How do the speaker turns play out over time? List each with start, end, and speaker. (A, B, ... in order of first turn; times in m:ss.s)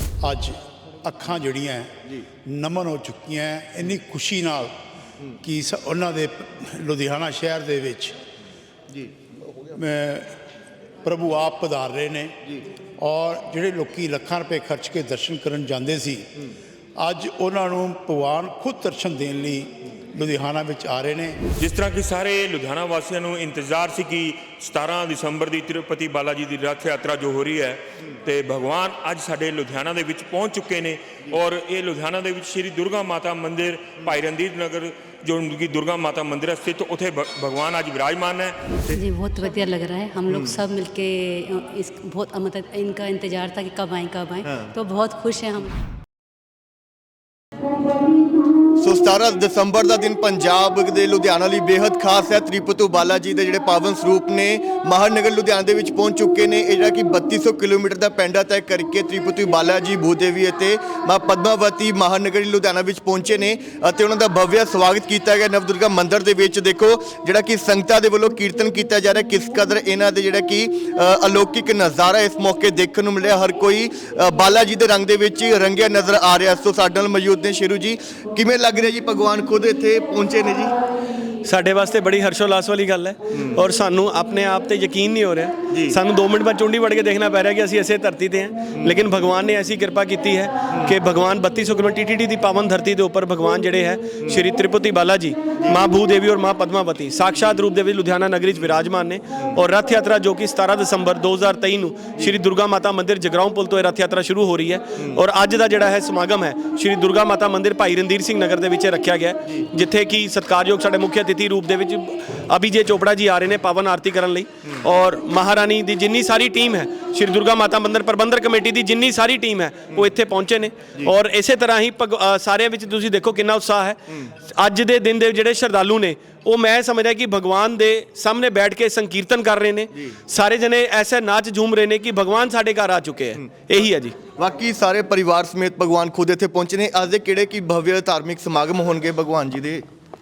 0:00.2-0:04.7 A
0:05.4-0:08.2 A
0:09.8-0:10.3 A
0:11.0-0:12.4 A
0:13.0-0:16.3 A
0:17.0-0:21.4 A
0:21.6-0:38.6 B
0:38.9-0:45.8 C
0:40.3-0:40.6 D
0:44.5-0:44.8 D
0:48.8-1:20.8 D
1:21.4-2:14.2 E
2:14.4-2:19.9 D